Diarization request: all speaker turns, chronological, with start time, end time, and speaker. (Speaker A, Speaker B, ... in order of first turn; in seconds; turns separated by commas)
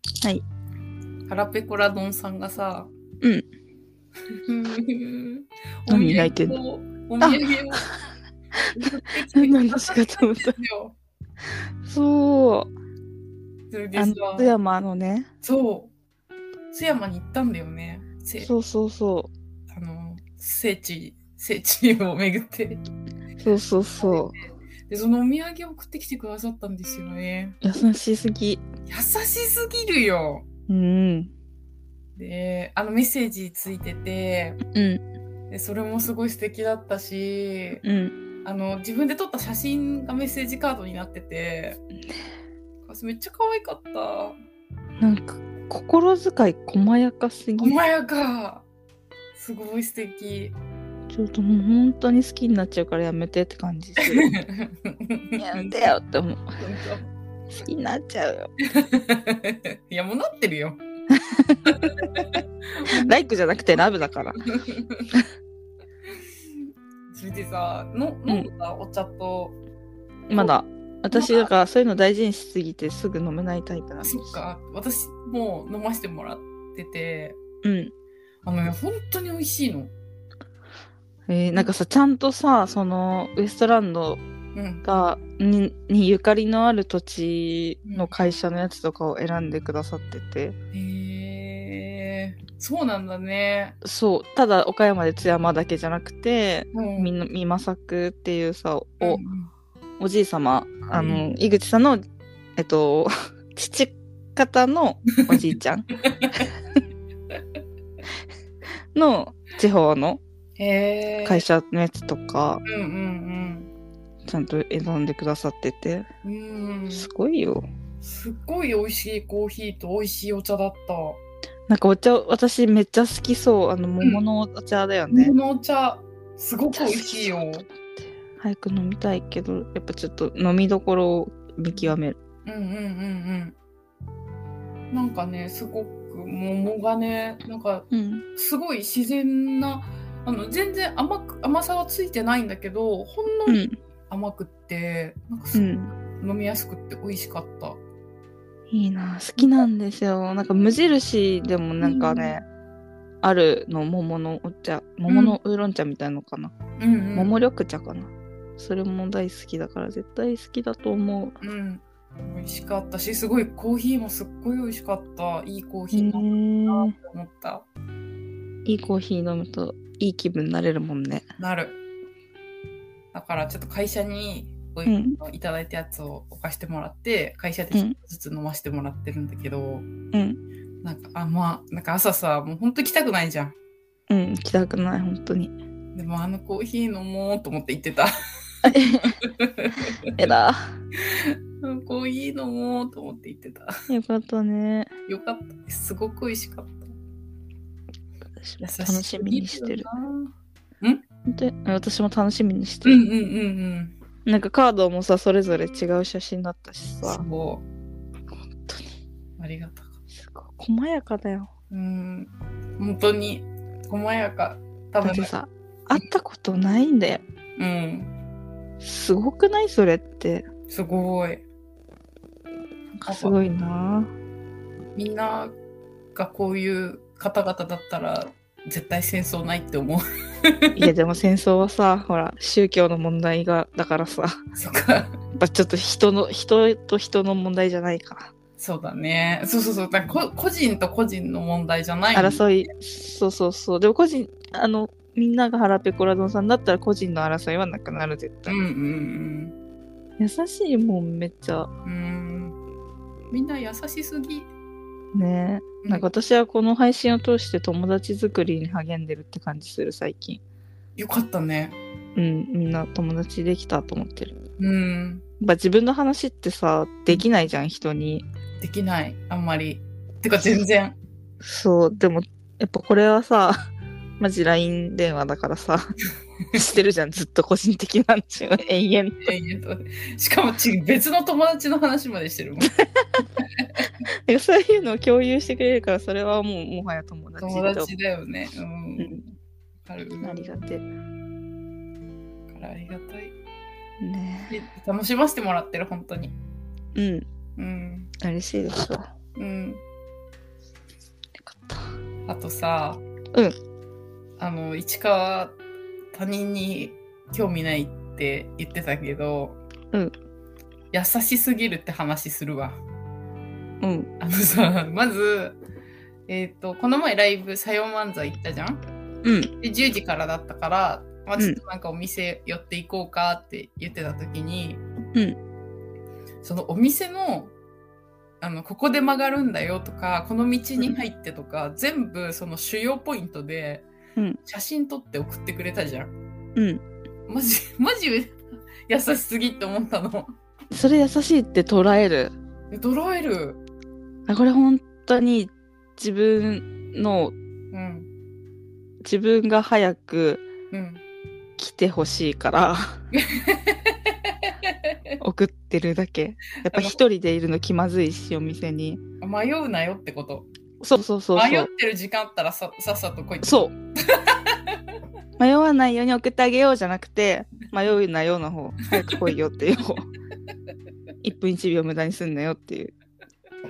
Speaker A: 1.3-2.9, Speaker A: 4.3-7.9, Speaker B: 5.9-6.6, Speaker B: 7.2-7.9, Speaker A: 8.7-11.0, Speaker B: 9.3-10.6, Speaker B: 11.8-12.7, Speaker A: 13.7-14.5, Speaker B: 14.0-15.3, Speaker A: 15.4-15.9, Speaker A: 16.7-18.5, Speaker B: 18.4-19.3, Speaker A: 19.7-22.8, Speaker B: 23.4-24.3, Speaker A: 24.9-27.6, Speaker B: 27.6-28.6, Speaker A: 28.9-30.4, Speaker B: 30.7-31.3, Speaker A: 32.2-34.6, Speaker B: 34.7-35.0, Speaker A: 35.5-37.8, Speaker B: 37.8-38.1, Speaker A: 38.5-41.8, Speaker A: 42.9-44.4, Speaker B: 45.0-47.8, Speaker A: 47.6-48.6, Speaker A: 49.4-50.6, Speaker B: 51.1-54.3, Speaker A: 54.0-55.9, Speaker B: 55.4-56.5, Speaker A: 56.6-57.1, Speaker B: 57.6-58.5, Speaker A: 58.6-60.8, Speaker B: 61.1-61.7, Speaker A: 61.7-63.1, Speaker B: 62.9-64.4, Speaker A: 63.8-65.1, Speaker A: 67.1-69.6, Speaker B: 70.3-74.3, Speaker A: 71.1-71.5, Speaker A: 74.0-77.4, Speaker B: 77.6-77.9, Speaker A: 78.4-79.9, Speaker B: 81.3-84.2, Speaker A: 84.5-84.8, Speaker B: 84.8-90.5, Speaker A: 87.8-88.3, Speaker A: 90.7-93.8, Speaker B: 93.8-99.2, Speaker A: 96.7-97.1, Speaker A: 99.0-99.5, Speaker B: 100.0-102.0, Speaker A: 100.9-101.3, Speaker B: 102.6-105.9, Speaker A: 106.1-106.5, Speaker B: 108.9-110.2, Speaker A: 110.6-111.4, Speaker B: 111.2-112.6, Speaker A: 112.7-113.7, Speaker B: 114.2-116.1, Speaker A: 116.2-117.1, Speaker B: 116.9-117.7, Speaker A: 118.0-121.2, Speaker B: 121.7-125.3, Speaker A: 125.1-127.7, Speaker B: 126.7-132.2, Speaker A: 131.8-133.6, Speaker A: 134.9-147.8, Speaker B: 137.9-138.2, Speaker B: 143.5-143.8, Speaker B: 145.5-145.9, Speaker B: 148.7-152.4, Speaker A: 151.8-152.3, Speaker B: 153.2-156.5, Speaker A: 155.1-155.4, Speaker A: 156.8-157.4, Speaker B: 157.2-161.4, Speaker A: 161.4-167.7, Speaker B: 165.9-166.9, Speaker B: 168.7-171.2, Speaker A: 171.4-171.8, Speaker A: 173.1-179.9, Speaker B: 174.9-175.2, Speaker B: 180.1-180.4, Speaker A: 180.8-183.6, Speaker B: 184.1-185.5, Speaker A: 185.9-188.1, Speaker B: 188.6-189.2, Speaker A: 189.2-190.0, Speaker B: 190.2-190.7, Speaker A: 191.0-193.7, Speaker B: 193.9-194.9, Speaker A: 195.1-196.9, Speaker B: 198.4-199.9, Speaker A: 198.6-201.0, Speaker B: 201.3-203.0, Speaker A: 202.8-203.9, Speaker B: 204.3-207.2, Speaker A: 207.0-207.7, Speaker B: 208.6-208.9, Speaker A: 209.4-209.9, Speaker B: 210.2-211.5, Speaker A: 211.7-215.3, Speaker B: 215.0-217.2, Speaker A: 217.6-218.1, Speaker B: 218.8-220.5, Speaker A: 220.7-221.4, Speaker B: 222.9-224.1, Speaker A: 223.1-223.4, Speaker A: 225.0-225.6, Speaker A: 226.2-230.9, Speaker B: 230.8-234.4, Speaker A: 234.6-235.2, Speaker B: 235.3-238.3, Speaker A: 238.6-242.7, Speaker B: 242.2-248.6, Speaker A: 248.5-249.5, Speaker B: 250.2-251.7, Speaker A: 251.8-252.6, Speaker A: 253.3-254.5, Speaker B: 255.1-260.4, Speaker A: 255.8-256.1, Speaker A: 261.0-261.8, Speaker B: 262.2-264.4, Speaker A: 264.6-265.2, Speaker B: 265.4-268.2, Speaker A: 268.6-271.0, Speaker B: 271.4-273.6, Speaker B: 274.2-275.9, Speaker B: 276.5-279.3, Speaker A: 279.2-282.8, Speaker A: 283.6-283.9, Speaker B: 284.3-287.9, Speaker A: 287.4-289.3, Speaker A: 289.9-290.6, Speaker B: 290.2-290.9, Speaker A: 292.5-293.3, Speaker B: 294.0-294.5, Speaker A: 294.5-296.4, Speaker B: 296.9-297.2, Speaker A: 297.6-298.1, Speaker B: 298.2-299.1, Speaker A: 299.4-299.8, Speaker B: 301.5-301.9, Speaker A: 302.3-303.0, Speaker A: 304.4-305.6, Speaker A: 306.1-309.6, Speaker A: 310.9-312.8, Speaker B: 313.8-314.1, Speaker A: 314.2-315.6, Speaker A: 316.3-318.8, Speaker B: 319.2-319.5, Speaker A: 319.6-324.8, Speaker A: 326.4-327.5, Speaker A: 328.4-333.9, Speaker A: 334.4-336.1, Speaker B: 336.6-336.8, Speaker A: 337.3-340.3, Speaker B: 340.7-342.3, Speaker A: 342.7-343.6, Speaker B: 344.3-347.3, Speaker A: 347.7-348.1, Speaker B: 349.0-350.4, Speaker A: 350.7-351.0, Speaker B: 351.6-353.0, Speaker A: 353.1-355.1, Speaker B: 355.2-359.0, Speaker A: 356.6-357.0, Speaker A: 359.2-360.5, Speaker B: 360.8-361.7, Speaker A: 361.4-364.8, Speaker B: 363.4-363.7, Speaker B: 365.4-370.1, Speaker A: 369.0-369.3, Speaker B: 371.2-372.9